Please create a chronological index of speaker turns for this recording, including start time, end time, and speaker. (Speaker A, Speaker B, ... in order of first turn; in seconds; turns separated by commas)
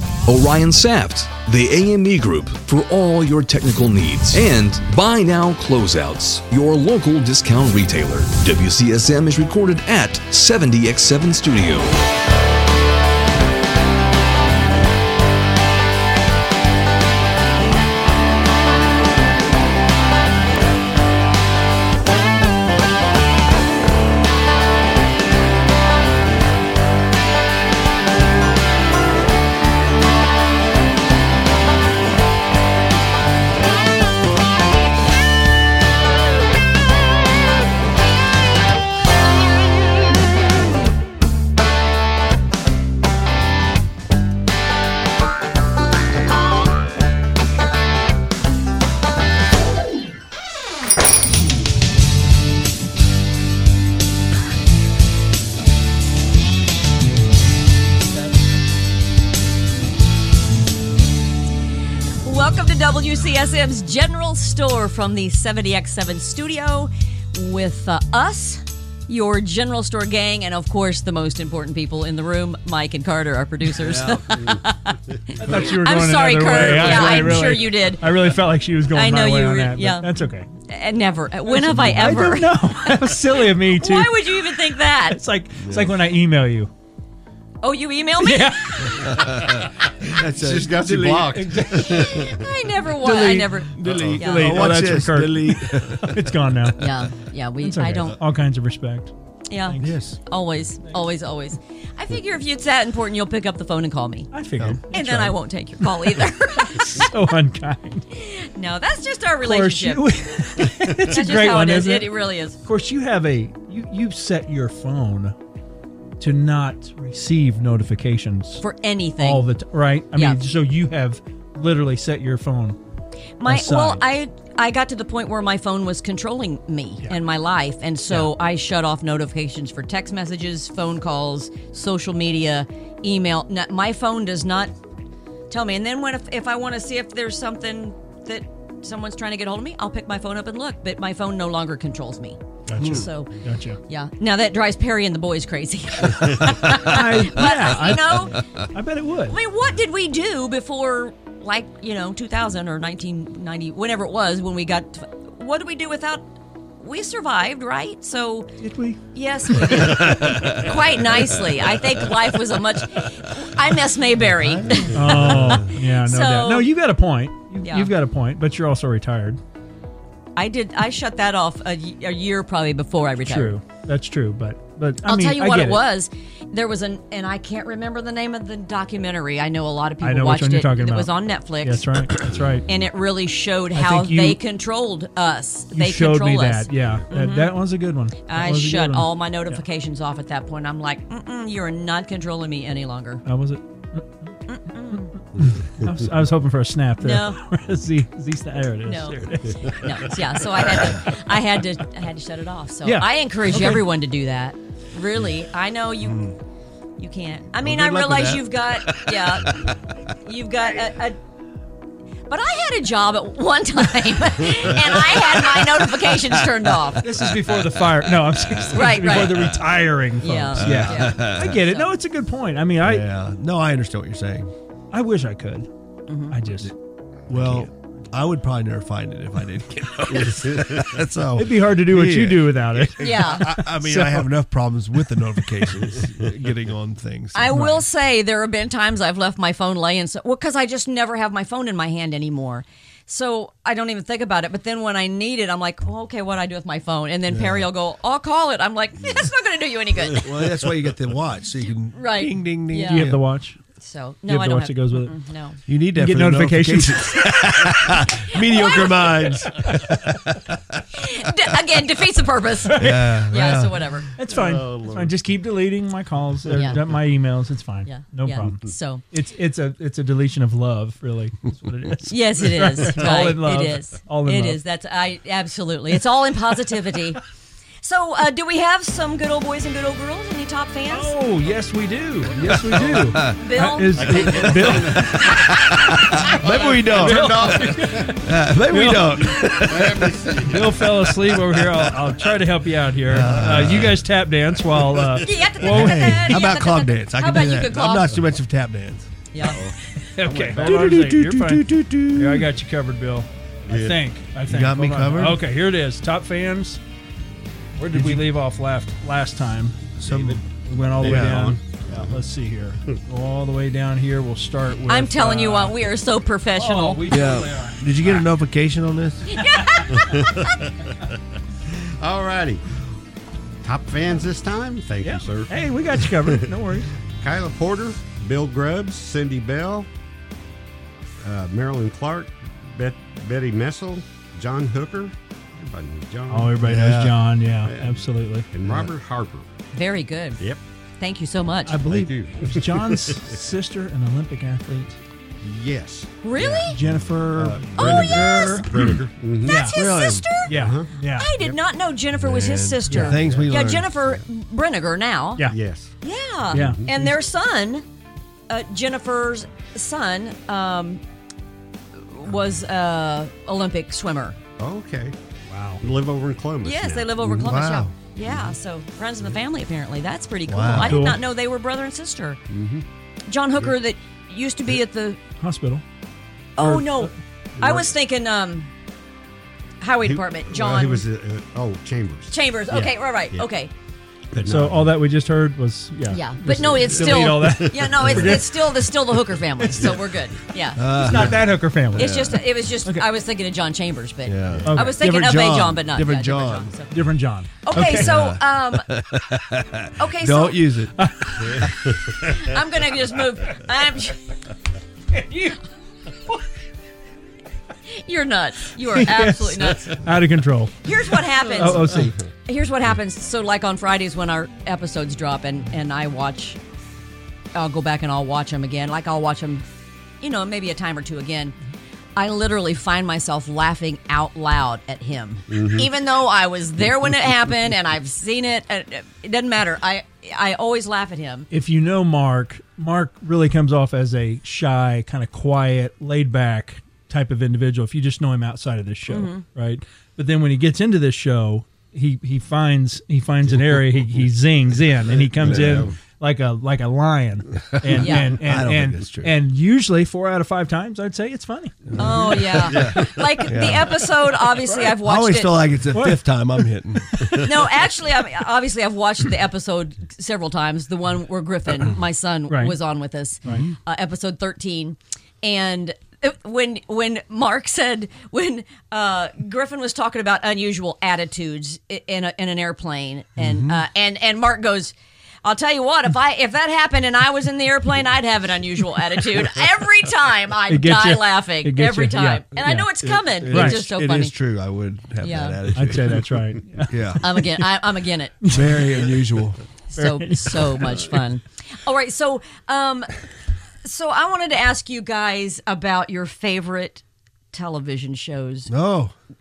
Speaker A: 0.2-11.9, Speaker B: 62.2-78.3, Speaker C: 74.1-74.5, Speaker D: 75.3-80.5, Speaker B: 78.9-80.1, Speaker B: 80.7-85.2, Speaker D: 81.5-86.7, Speaker E: 85.6-86.0, Speaker B: 87.6-89.2, Speaker D: 88.2-88.9, Speaker E: 89.0-91.8, Speaker C: 90.2-92.5, Speaker D: 91.3-92.2, Speaker B: 92.2-94.7, Speaker D: 93.0-97.0, Speaker E: 93.7-96.9, Speaker C: 93.9-94.2, Speaker B: 96.8-98.2, Speaker D: 97.6-99.1, Speaker B: 99.5-104.3, Speaker D: 99.7-99.9, Speaker E: 99.8-100.2, Speaker D: 104.3-105.3, Speaker E: 104.6-105.3, Speaker B: 104.9-107.1, Speaker D: 106.8-108.0, Speaker B: 108.1-110.1, Speaker D: 109.4-115.3, Speaker B: 111.0-112.6, Speaker D: 116.2-118.6, Speaker B: 118.6-119.5, Speaker D: 119.2-122.8, Speaker B: 120.1-120.4, Speaker B: 123.4-134.7, Speaker D: 123.5-124.0, Speaker D: 128.1-128.3, Speaker B: 135.5-143.3, Speaker D: 142.7-143.8, Speaker E: 142.8-143.1, Speaker B: 143.9-148.4, Speaker D: 146.6-149.4, Speaker B: 149.3-156.2, Speaker B: 156.8-158.5, Speaker D: 158.6-159.0, Speaker B: 159.1-166.7, Speaker E: 164.2-165.6, Speaker D: 164.9-169.4, Speaker B: 167.6-167.9, Speaker B: 170.3-173.5, Speaker D: 173.2-175.8, Speaker B: 175.0-187.6, Speaker D: 180.0-182.7, Speaker D: 183.7-184.4, Speaker D: 185.7-189.6, Speaker B: 188.3-193.2, Speaker D: 193.2-194.3, Speaker B: 194.5-195.1, Speaker D: 195.3-200.1, Speaker B: 197.0-197.4, Speaker B: 198.8-206.3, Speaker D: 202.8-203.8, Speaker E: 206.0-206.4, Speaker B: 207.0-209.6, Speaker E: 207.6-209.8, Speaker B: 210.2-211.2, Speaker B: 212.3-217.1, Speaker E: 214.9-215.9, Speaker D: 217.0-223.1, Speaker B: 218.7-219.6, Speaker B: 220.2-221.9, Speaker E: 220.6-221.5, Speaker E: 222.8-224.5, Speaker D: 224.9-225.7, Speaker B: 226.1-226.3, Speaker D: 226.3-226.7, Speaker E: 227.3-237.6, Speaker C: 230.3-230.6, Speaker D: 231.3-234.3, Speaker B: 233.0-233.5, Speaker B: 237.3-250.3, Speaker D: 237.5-237.8, Speaker E: 247.3-247.7, Speaker E: 250.2-253.2, Speaker B: 251.9-253.1, Speaker D: 252.9-253.6, Speaker B: 253.8-255.6, Speaker D: 254.3-255.1, Speaker E: 255.7-260.8, Speaker D: 255.9-257.1, Speaker B: 257.3-259.2, Speaker B: 261.0-264.1, Speaker D: 262.7-263.1, Speaker E: 262.7-263.8, Speaker D: 264.2-274.6, Speaker C: 264.3-265.1, Speaker B: 266.5-266.8, Speaker B: 267.9-269.0, Speaker B: 272.1-277.2, Speaker B: 277.8-281.1, Speaker D: 280.9-285.5, Speaker C: 282.5-283.3, Speaker B: 283.4-284.6, Speaker C: 283.9-285.6, Speaker D: 286.2-289.6, Speaker C: 286.2-288.2, Speaker E: 286.3-287.6, Speaker E: 288.2-290.5, Speaker C: 289.3-291.0, Speaker D: 290.4-296.4, Speaker E: 293.1-294.0, Speaker B: 295.1-298.2, Speaker E: 295.6-299.1, Speaker C: 299.4-300.9, Speaker D: 300.0-306.8, Speaker E: 300.5-302.5, Speaker C: 303.7-304.0, Speaker E: 304.5-305.5, Speaker D: 307.8-309.9, Speaker E: 307.9-308.3, Speaker E: 310.0-310.4, Speaker C: 310.0-312.2, Speaker D: 310.6-315.8, Speaker E: 311.0-311.5, Speaker B: 314.9-317.1, Speaker D: 316.5-318.2, Speaker E: 317.1-319.4, Speaker B: 319.3-320.5, Speaker C: 322.0-322.6, Speaker C: 323.6-326.5, Speaker D: 325.0-326.9, Speaker C: 327.2-329.9, Speaker C: 331.2-336.7, Speaker D: 336.3-338.5, Speaker E: 336.6-337.1, Speaker C: 337.6-339.4, Speaker B: 339.7-340.4, Speaker B: 341.0-341.8, Speaker D: 341.6-345.0, Speaker C: 341.8-343.3, Speaker C: 345.4-349.7, Speaker B: 346.2-346.8, Speaker D: 346.6-349.8, Speaker B: 347.8-355.5, Speaker E: 349.7-350.3, Speaker D: 350.4-351.3, Speaker C: 350.5-351.6, Speaker E: 352.2-353.9, Speaker D: 352.9-353.2, Speaker C: 353.2-354.2, Speaker C: 355.5-355.9, Speaker B: 356.0-357.8, Speaker C: 356.5-356.9, Speaker D: 356.5-357.1, Speaker B: 358.5-361.0, Speaker B: 362.1-364.4, Speaker C: 364.6-365.1, Speaker D: 365.5-365.8, Speaker C: 365.8-367.5, Speaker B: 366.6-372.4, Speaker E: 367.2-367.9, Speaker C: 368.2-368.5, Speaker E: 370.5-371.1, Speaker D: 370.7-371.2, Speaker C: 372.5-372.8, Speaker B: 373.3-375.2, Speaker D: 375.4-375.8, Speaker B: 376.6-378.7, Speaker D: 376.6-377.1, Speaker B: 379.8-381.1, Speaker C: 380.0-383.5, Speaker B: 382.3-383.7, Speaker C: 384.3-384.9, Speaker D: 384.4-388.4, Speaker B: 386.1-390.9, Speaker C: 386.5-388.5, Speaker D: 389.6-390.0, Speaker C: 389.8-390.0, Speaker E: 390.8-392.4, Speaker D: 391.0-392.1, Speaker B: 391.9-396.9, Speaker E: 394.2-396.7, Speaker C: 394.5-394.8, Speaker D: 394.7-395.3, Speaker D: 396.9-398.1, Speaker B: 397.6-398.9, Speaker E: 397.7-400.9, Speaker B: 400.0-400.6, Speaker D: 401.0-401.6, Speaker B: 402.2-404.2, Speaker D: 405.1-405.6, Speaker B: 407.9-410.0, Speaker D: 408.9-410.8, Speaker B: 410.8-416.6, Speaker D: 411.5-412.1, Speaker B: 417.5-419.6, Speaker B: 420.2-421.5, Speaker B: 422.1-431.5, Speaker C: 425.5-425.9, Speaker D: 431.5-452.0, Speaker B: 439.1-439.4, Speaker C: 445.3-445.9, Speaker E: 445.4-445.9, Speaker E: 447.8-449.4, Speaker B: 447.9-448.3, Speaker E: 451.9-454.0, Speaker B: 452.0-455.6, Speaker C: 452.7-453.0, Speaker D: 454.6-454.9, Speaker E: 455.0-457.4, Speaker D: 455.9-456.2, Speaker B: 457.4-484.3, Speaker D: 462.5-462.8, Speaker E: 463.5-463.7, Speaker E: 473.4-473.8, Speaker D: 480.7-482.9, Speaker E: 483.0-487.4, Speaker D: 483.4-483.8, Speaker B: 485.2-485.6, Speaker D: 485.7-487.1, Speaker B: 487.2-488.6, Speaker D: 488.4-488.8, Speaker E: 488.5-489.6, Speaker B: 489.9-493.1, Speaker D: 489.9-491.2, Speaker B: 493.8-498.7, Speaker E: 498.7-499.1